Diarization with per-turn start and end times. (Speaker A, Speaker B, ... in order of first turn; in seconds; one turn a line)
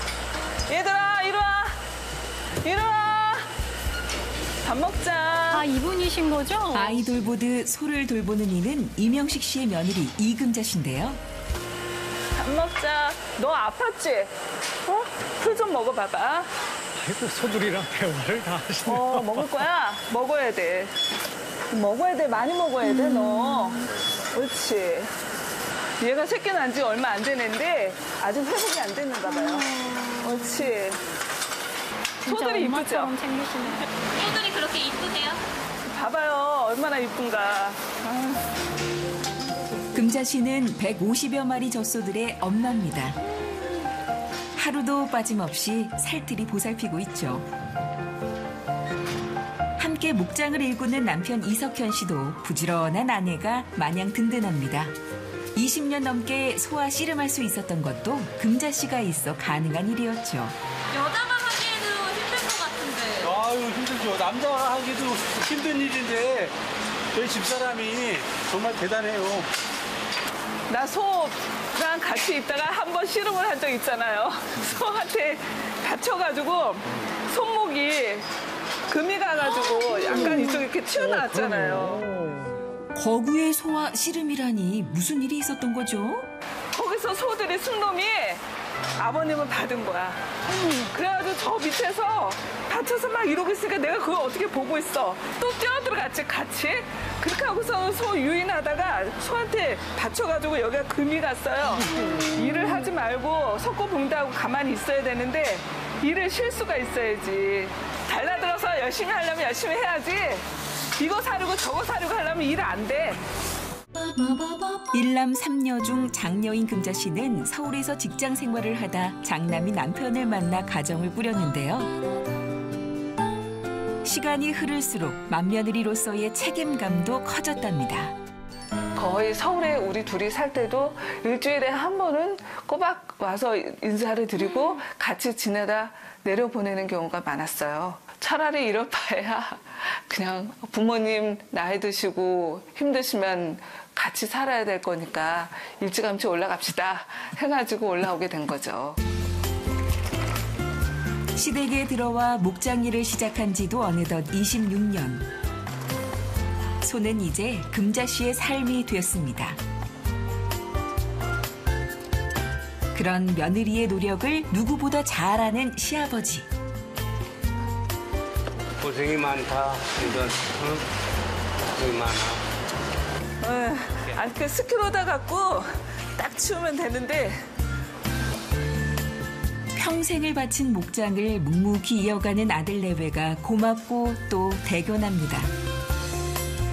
Speaker A: 0.7-1.7
Speaker A: 2.6-3.5
Speaker A: 4.6-5.7
Speaker B: 5.5-7.0
Speaker C: 6.7-11.2
Speaker A: 12.4-14.3
Speaker A: 14.9-16.5
Speaker D: 17.0-19.6
Speaker A: 18.9-20.9
Speaker A: 21.7-25.1
Speaker A: 26.0-31.0
Speaker B: 29.3-30.4
Speaker B: 32.2-34.0
Speaker A: 32.2-33.1
Speaker E: 34.1-35.4
Speaker A: 35.9-38.4
Speaker C: 39.9-43.2
Speaker C: 44.5-47.5
Speaker C: 49.8-55.0
Speaker C: 55.5-60.6
Speaker E: 60.9-63.3
Speaker F: 63.2-66.5
Speaker F: 67.1-69.5
Speaker A: 70.7-78.2
Speaker A: 78.9-82.0
Speaker D: 80.2-82.6
Speaker C: 83.0-86.3
Speaker A: 86.7-88.4
Speaker A: 89.0-113.2
Speaker C: 114.2-121.9
Speaker C: 124.0-128.2
Speaker A: 129.0-149.0
Speaker C: 151.3-155.2
Speaker C: 156.8-159.6
Speaker C: 162.9-166.5
Speaker G: 168.8-170.9
Speaker G: 171.7-172.4
Speaker A: 173.4-177.4
Speaker C: 179.8-185.5